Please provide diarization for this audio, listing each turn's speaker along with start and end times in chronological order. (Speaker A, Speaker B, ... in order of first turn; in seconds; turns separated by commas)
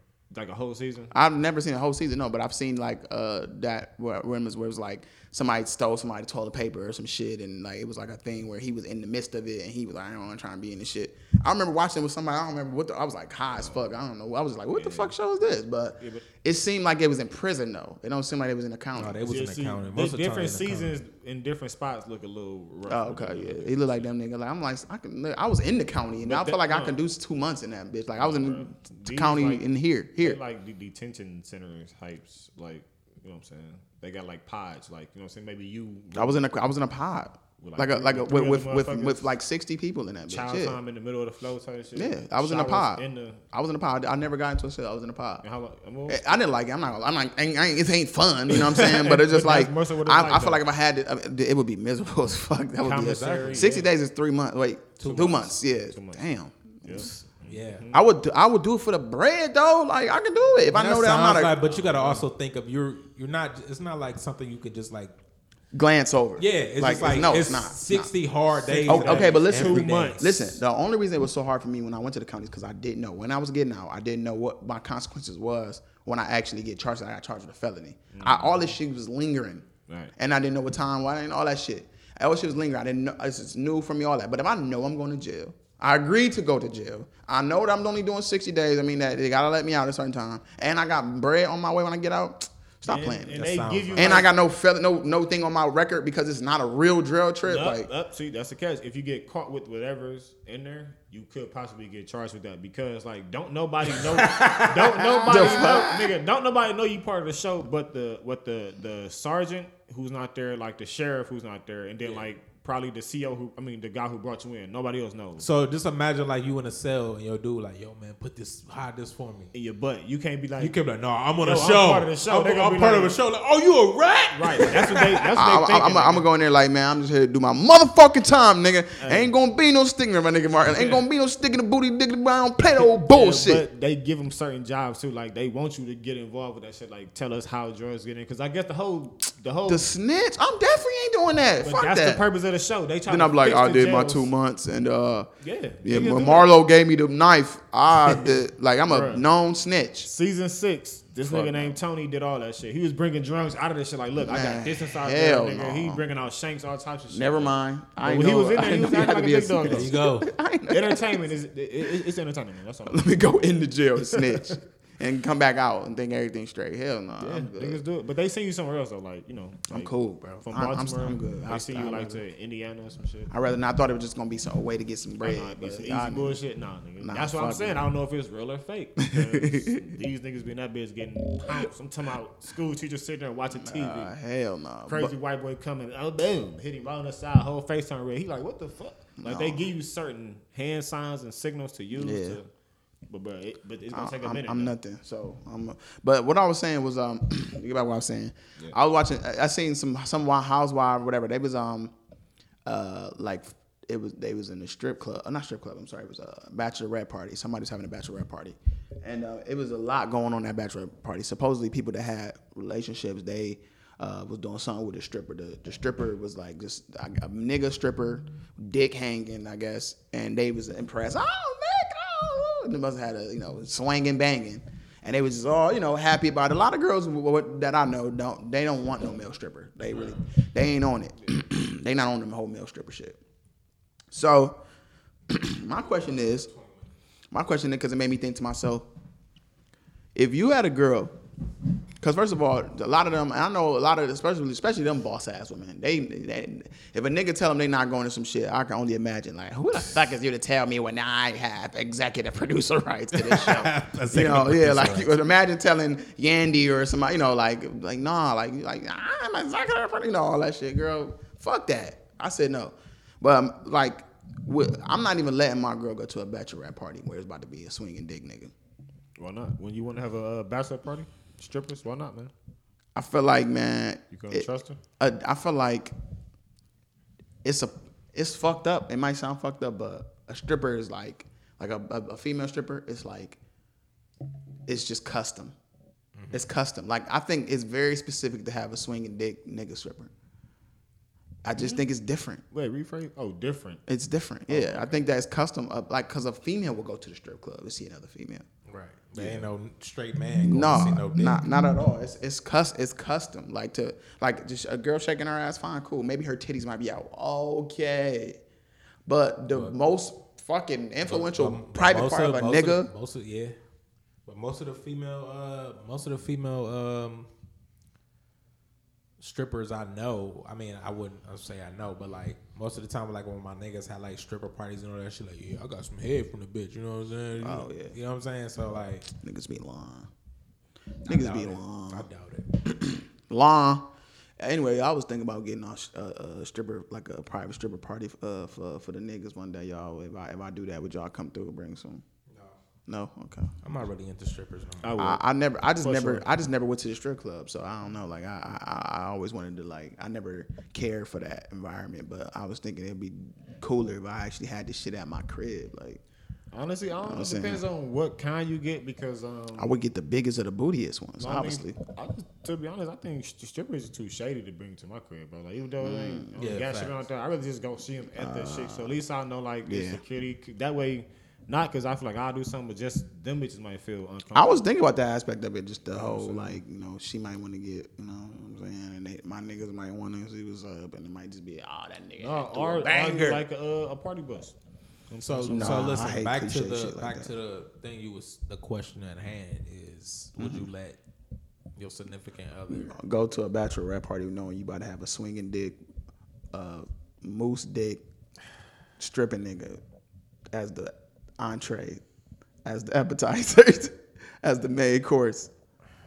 Speaker A: 0.3-1.1, Speaker B: 1.1-19.2, Speaker A: 13.5-13.9, Speaker A: 14.7-15.1, Speaker A: 16.0-16.3, Speaker C: 19.0-20.9, Speaker A: 19.3-24.1, Speaker B: 22.9-30.4, Speaker A: 26.2-27.0, Speaker A: 28.2-29.6, Speaker A: 30.2-36.4, Speaker B: 36.1-40.8, Speaker A: 37.6-39.3, Speaker A: 40.3-43.4, Speaker B: 42.0-45.4, Speaker A: 45.4-46.2, Speaker B: 46.1-57.2, Speaker A: 48.5-50.6, Speaker A: 52.8-53.9, Speaker C: 52.8-53.7, Speaker C: 55.0-55.5, Speaker A: 55.1-56.2, Speaker A: 56.8-58.0, Speaker C: 57.5-57.9, Speaker B: 57.9-61.6, Speaker C: 60.7-65.1, Speaker A: 61.6-62.2, Speaker B: 65.7-68.1, Speaker C: 66.4-70.5, Speaker A: 68.7-70.4, Speaker B: 68.8-79.7, Speaker A: 78.1-78.7, Speaker A: 79.9-80.1, Speaker B: 80.2-93.4, Speaker A: 92.9-94.3, Speaker C: 93.3-94.2, Speaker B: 94.0-97.9, Speaker A: 97.4-115.5, Speaker C: 104.2-105.8, Speaker B: 105.2-106.1, Speaker C: 115.4-119.5, Speaker A: 119.5-120.7, Speaker C: 120.6-125.3, Speaker A: 121.4-123.2, Speaker A: 124.3-126.2, Speaker B: 125.3-133.7, Speaker A: 129.0-129.3, Speaker A: 130.6-131.0, Speaker A: 132.8-139.9, Speaker B: 139.7-142.2, Speaker A: 141.6-144.3, Speaker B: 143.1-145.3, Speaker A: 145.4-146.5, Speaker B: 145.8-150.1, Speaker A: 148.1-148.3, Speaker A: 148.9-149.2, Speaker A: 150.0-160.0, Speaker B: 151.2-151.8, Speaker B: 154.2-156.0, Speaker B: 157.1-161.2, Speaker C: 159.6-160.3, Speaker A: 160.7-163.1, Speaker B: 162.9-167.8, Speaker A: 164.1-164.5, Speaker A: 167.2-169.9, Speaker B: 169.7-172.2, Speaker A: 170.4-173.3, Speaker B: 173.3-176.4, Speaker A: 175.2-184.1, Speaker B: 177.0-177.9, Speaker B: 179.1-179.8, Speaker B: 183.5-185.1, Speaker A: 184.9-192.5, Speaker B: 189.2-189.7, Speaker B: 191.9-192.4, Speaker A: 193.1-194.7, Speaker B: 193.9-201.9, Speaker B: 202.7-233.2, Speaker B: 234.1-234.6, Speaker B: 235.3-236.5, Speaker B: 237.3-238.9, Speaker B: 240.2-241.1, Speaker B: 242.0-268.5, Speaker C: 253.1-255.1, Speaker A: 269.2-272.3, Speaker B: 272.9-274.5, Speaker A: 274.1-274.8, Speaker B: 275.0-275.9, Speaker B: 277.4-283.4, Speaker B: 284.7-285.6, Speaker C: 286.2-286.5, Speaker B: 286.3-290.1, Speaker B: 291.4-292.4, Speaker A: 292.5-293.8, Speaker B: 293.9-298.4, Speaker A: 294.5-295.0, Speaker C: 298.7-301.4, Speaker B: 299.2-299.5, Speaker B: 300.4-308.4, Speaker B: 309.1-312.9, Speaker C: 311.1-313.6, Speaker C: 314.3-317.3, Speaker C: 319.2-329.1, Speaker B: 327.4-327.9, Speaker B: 329.1-330.1, Speaker C: 331.1-332.5, Speaker B: 331.1-332.1, Speaker B: 332.6-333.9, Speaker B: 334.4-342.0, Speaker B: 342.9-343.5, Speaker C: 343.6-344.9, Speaker A: 344.8-345.2, Speaker B: 345.0-356.0, Speaker A: 345.8-346.3, Speaker A: 356.5-359.7, Speaker B: 357.0-357.6, Speaker B: 359.6-361.8, Speaker A: 361.2-374.6, Speaker B: 365.8-366.3, Speaker C: 366.4-367.1, Speaker B: 368.2-368.9, Speaker B: 369.7-370.0, Speaker B: 374.3-383.4, Speaker A: 375.9-376.6, Speaker A: 382.2-384.6, Speaker A: 385.1-385.9, Speaker C: 385.2-391.0, Speaker B: 385.4-387.3, Speaker B: 390.4-390.7, Speaker C: 391.8-393.0, Speaker B: 392.7-395.8, Speaker B: 396.5-398.0, Speaker B: 399.0-399.8, Speaker B: 400.5-402.0, Speaker B: 402.6-405.5